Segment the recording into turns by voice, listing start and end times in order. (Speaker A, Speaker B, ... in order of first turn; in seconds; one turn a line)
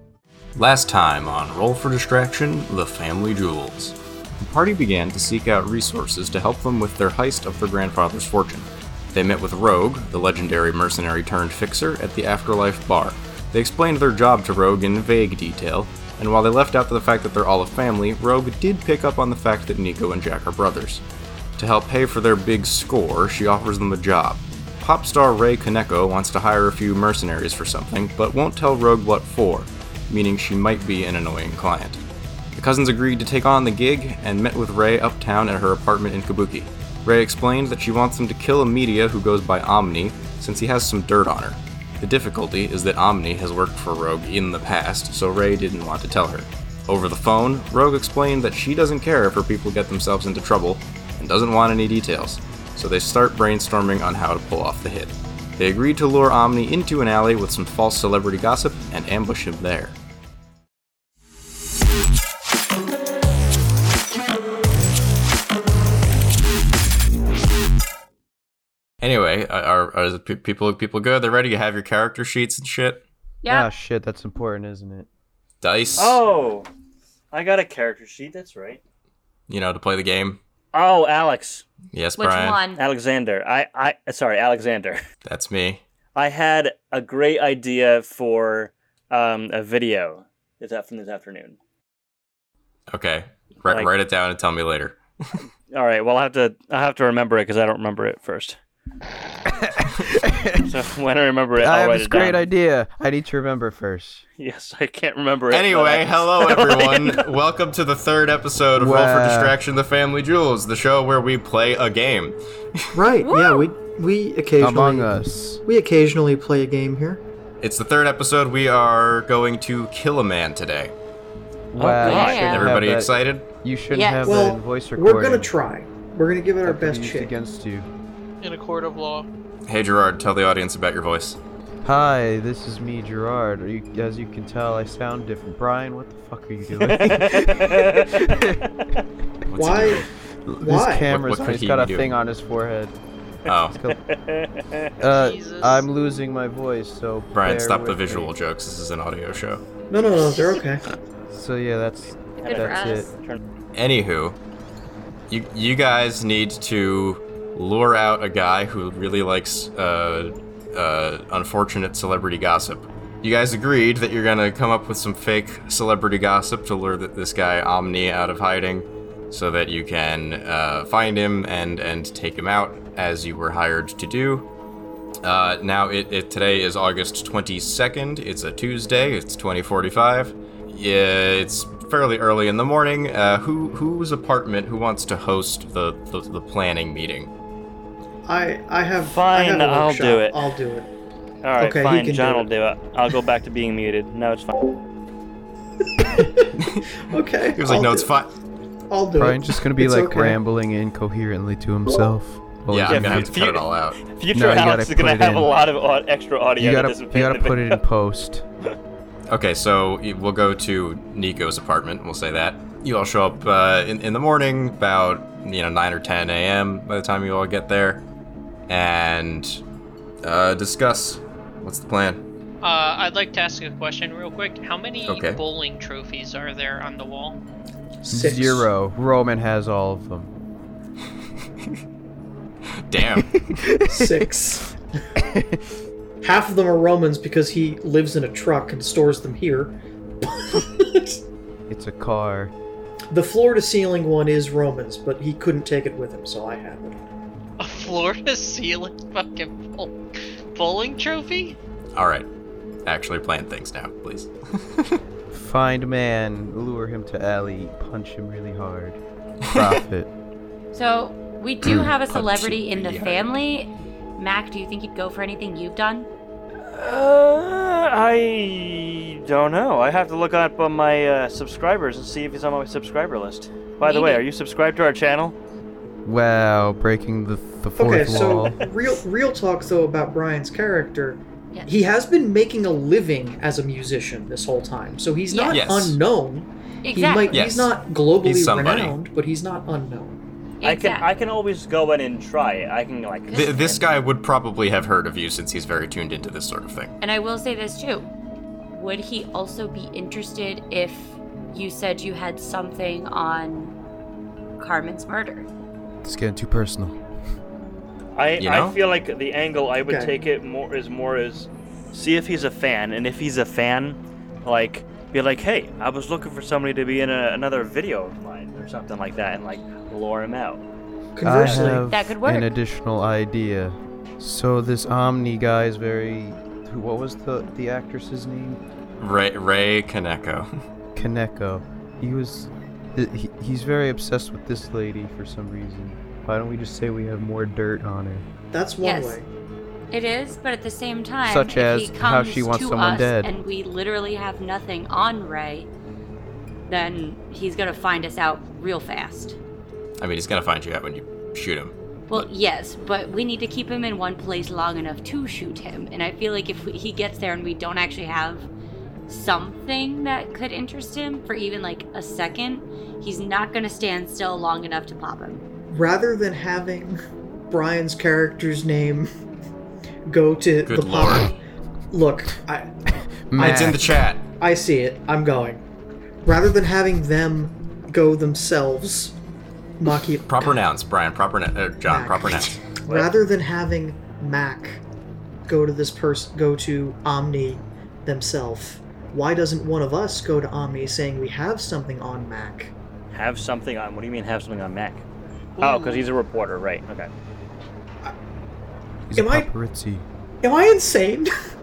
Speaker A: 0.6-21.0
Speaker A: 21.6-32.0
Speaker A: 32.5-60.0
Speaker A: 69.0-73.0
Speaker B: 73.4-73.7
Speaker C: 73.5-75.1
Speaker A: 75.6-76.2
Speaker D: 76.0-76.7
Speaker D: 77.3-78.8
Speaker A: 79.5-80.4
Speaker D: 80.7-81.7
Speaker A: 81.9-82.6
Speaker B: 82.2-82.8
Speaker D: 82.8-85.0
Speaker A: 85.2-85.8
Speaker D: 86.1-91.6
Speaker A: 92.9-95.3
Speaker D: 95.7-98.6
Speaker C: 99.7-100.7
Speaker D: 100.6-102.4
Speaker C: 101.6-104.2
Speaker D: 104.4-107.3
Speaker A: 105.5-113.0
Speaker C: 108.7-109.6
Speaker E: 112.9-117.2
Speaker B: 113.2-113.7
Speaker C: 114.6-115.6
Speaker A: 117.6-120.9
Speaker C: 121.7-125.5
Speaker B: 121.8-122.7
Speaker D: 122.0-122.5
Speaker A: 122.0-123.5
Speaker B: 123.9-124.4
Speaker E: 124.2-127.3
Speaker C: 126.6-127.9
Speaker F: 128.4-129.3
Speaker A: 129.7-131.4
Speaker C: 131.8-138.6
Speaker D: 136.8-139.0
Speaker A: 139.4-140.1
Speaker E: 139.6-140.1
Speaker C: 140.4-142.9
Speaker E: 140.6-141.1
Speaker A: 141.1-142.1
Speaker A: 143.5-143.8
Speaker C: 143.7-144.0
Speaker D: 143.9-144.9
Speaker C: 145.0-148.3
Speaker F: 145.1-145.9
Speaker A: 147.3-149.6
Speaker E: 149.9-150.8
Speaker B: 150.2-150.6
Speaker C: 151.3-153.1
Speaker B: 152.4-153.1
Speaker D: 152.4-153.4
Speaker A: 153.7-154.4
Speaker A: 155.3-174.5
Speaker A: 175.2-187.3
Speaker E: 188.2-190.9
Speaker D: 189.0-190.4
Speaker D: 191.4-194.8
Speaker E: 191.6-192.5
Speaker E: 196.0-198.1
Speaker A: 196.6-196.8
Speaker A: 197.6-198.3
Speaker E: 198.9-200.4
Speaker C: 199.2-203.4
Speaker A: 202.7-204.0
Speaker D: 202.9-207.8
Speaker C: 204.3-205.5
Speaker C: 206.6-208.4
Speaker A: 209.3-218.0
Speaker A: 218.7-219.6
Speaker A: 220.2-222.2
Speaker F: 222.6-227.4
Speaker A: 225.1-225.4
Speaker E: 228.0-228.7
Speaker C: 228.1-230.3
Speaker A: 232.7-233.6
Speaker C: 233.0-234.3
Speaker E: 233.8-234.7
Speaker C: 235.2-235.7
Speaker E: 236.2-241.2
Speaker C: 241.7-242.5
Speaker E: 243.1-247.0
Speaker F: 247.6-249.9
Speaker F: 250.5-251.6
Speaker A: 251.9-252.3
Speaker A: 252.8-255.0
Speaker C: 255.3-259.0
Speaker A: 259.5-259.7
Speaker C: 259.5-260.1
Speaker B: 260.7-266.1
Speaker A: 261.7-263.3
Speaker D: 266.7-275.4
Speaker B: 273.8-274.3
Speaker C: 276.0-278.6
Speaker E: 277.8-290.2
Speaker D: 278.1-278.7
Speaker B: 285.3-285.6
Speaker A: 285.5-286.0
Speaker B: 286.8-287.6
Speaker A: 287.3-287.7
Speaker A: 288.2-289.0
Speaker B: 290.6-291.1
Speaker D: 290.6-293.6
Speaker B: 293.3-293.8
Speaker A: 293.3-296.9
Speaker B: 297.0-298.1
Speaker B: 298.7-303.8
Speaker B: 304.6-305.5
Speaker C: 306.0-307.0
Speaker D: 308.1-320.6
Speaker A: 308.4-308.8
Speaker E: 309.9-310.1
Speaker E: 321.1-321.9
Speaker C: 321.2-328.6
Speaker D: 321.4-321.8
Speaker B: 321.9-322.5
Speaker A: 329.0-330.5
Speaker C: 330.9-338.2
Speaker E: 338.5-339.3
Speaker B: 338.8-339.2
Speaker B: 339.9-345.7
Speaker C: 341.2-343.3
Speaker B: 346.7-349.4
Speaker A: 350.0-352.3
Speaker B: 352.1-358.5
Speaker B: 359.1-365.4
Speaker E: 365.7-367.0
Speaker E: 367.5-369.1
Speaker E: 370.1-371.3
Speaker A: 370.6-371.3
Speaker E: 371.9-372.7
Speaker C: 373.3-374.0
Speaker E: 373.4-373.9
Speaker A: 373.4-374.3
Speaker E: 374.4-375.6
Speaker E: 376.2-379.1
Speaker E: 379.8-380.6
Speaker A: 380.3-382.6
Speaker E: 381.9-384.8
Speaker E: 385.4-392.7
Speaker D: 393.1-395.0
Speaker D: 395.6-397.1
Speaker F: 395.6-396.0
Speaker C: 399.1-400.1
Speaker E: 399.1-399.5
Speaker E: 400.4-401.3